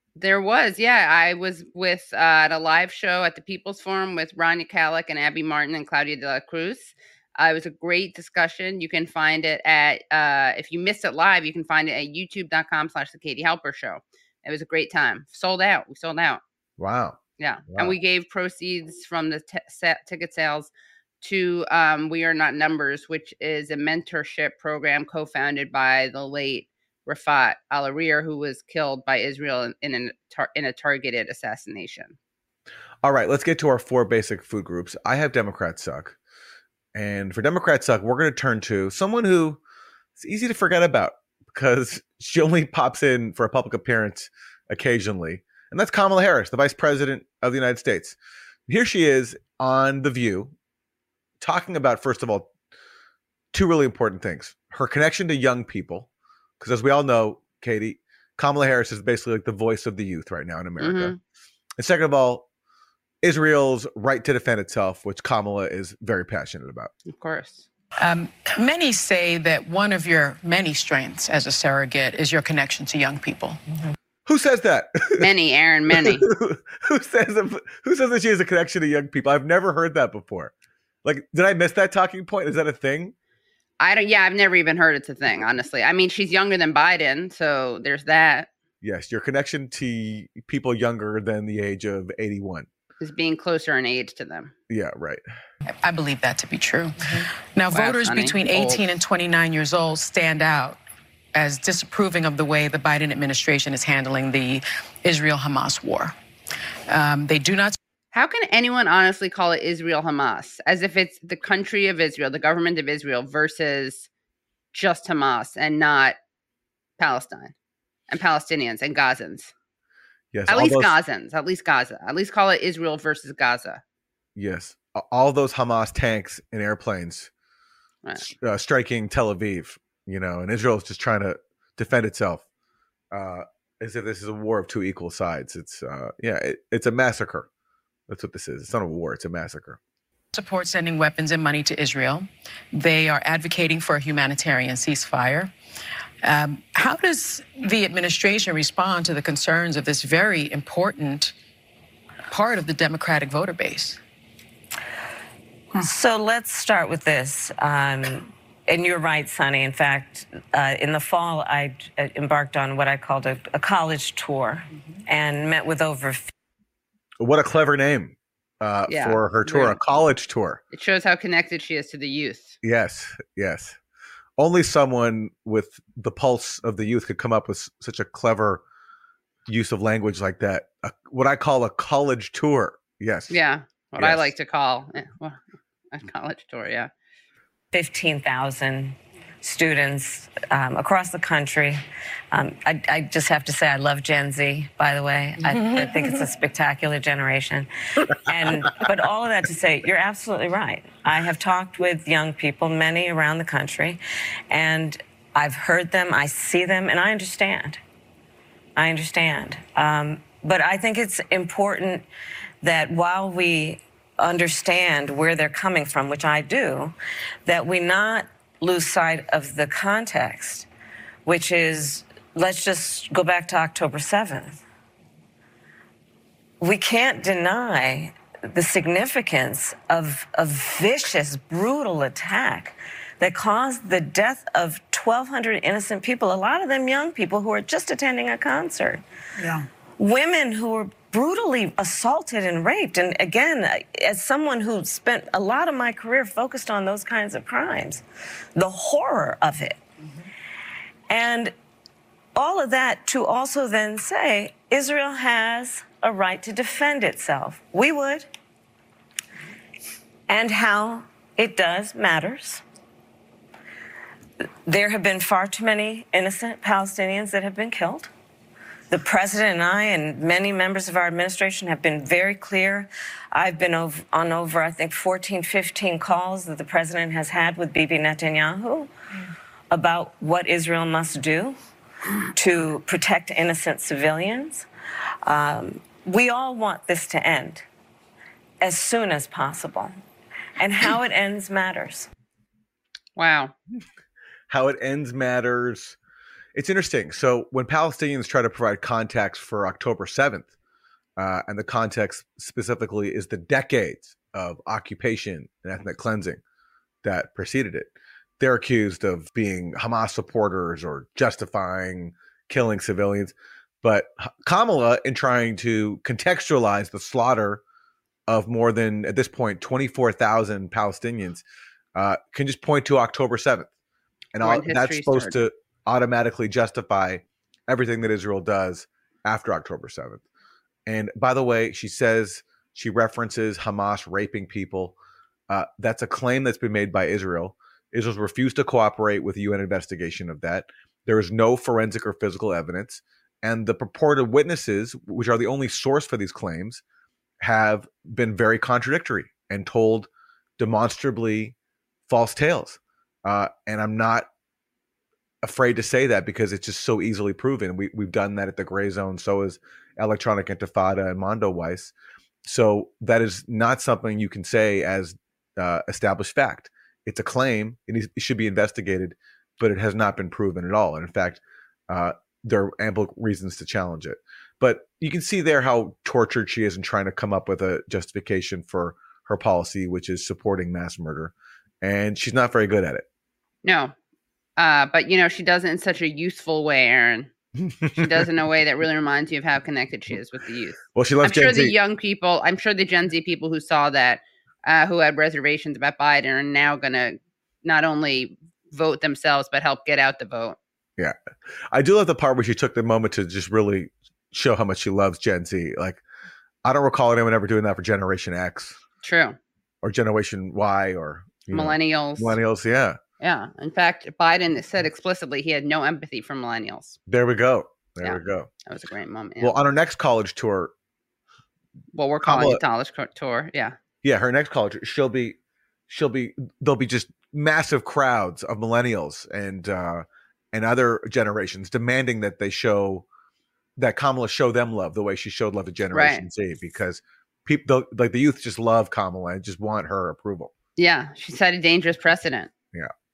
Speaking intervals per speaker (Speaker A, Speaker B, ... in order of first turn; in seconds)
Speaker A: 0.2-16.4, 17.4-32.1, 60.8-61.2, 67.0-67.7, 75.2-76.2, 83.8-88.5, 93.0-94.5, 97.7-98.8, 108.1-114.1, 114.7-116.2, 117.0-117.5, 118.1-119.5, 120.5-123.8, 168.9-169.8, 170.7-172.6, 183.3-186.9, 293.1-293.5, 324.4-325.4, 383.6-383.9, 384.6-387.3, 387.9-400.6, 409.0-409.4, 411.5-412.4, 413.2-417.0, 418.0-419.5, 421.9-423.8, 435.9-436.2, 440.8-442.5
Speaker B: 16.8-17.2, 17.7-17.9, 33.0-36.2, 36.9-39.6, 40.2-50.5, 51.4-52.5, 53.5-56.1, 56.6-61.1, 61.8-62.5, 63.2-66.9, 74.2-75.3, 75.9-83.1, 88.8-92.7, 94.7-95.2, 120.3-121.0, 124.3-127.3, 128.2-132.4, 133.1-137.5, 138.1-139.8, 167.2-170.6, 172.6-173.8, 174.4-178.6, 179.5-183.4, 184.0-184.3, 294.5-296.0, 296.5-300.5, 301.2-306.4, 307.0-317.6, 318.3-321.4, 321.9-323.7, 324.3-330.2, 330.9-334.9, 335.5-346.8, 347.4-351.5, 352.1-354.3, 355.4-361.9, 362.4-383.0, 387.6-388.2, 390.9-391.8, 401.7-406.0, 406.6-408.8, 409.8-413.0, 417.1-418.5, 419.4-420.7, 422.2-422.6, 424.0-425.4, 425.9-433.0, 433.8-440.5
Speaker C: 68.0-73.6, 95.8-100.8, 101.3-106.2, 106.9-107.8, 140.3-145.5, 146.2-151.3, 152.3-154.0
Speaker D: 155.7-166.3, 187.7-191.8, 192.3-207.8, 208.8-212.1, 212.6-220.7, 221.2-224.6, 226.6-239.0, 240.0-248.0, 248.6-249.8, 251.1-251.5, 252.3-258.3, 260.3-262.6, 264.6-268.1, 268.9-278.9, 279.7-281.6, 282.3-284.7, 285.2-287.6, 288.6-289.9, 290.6-292.1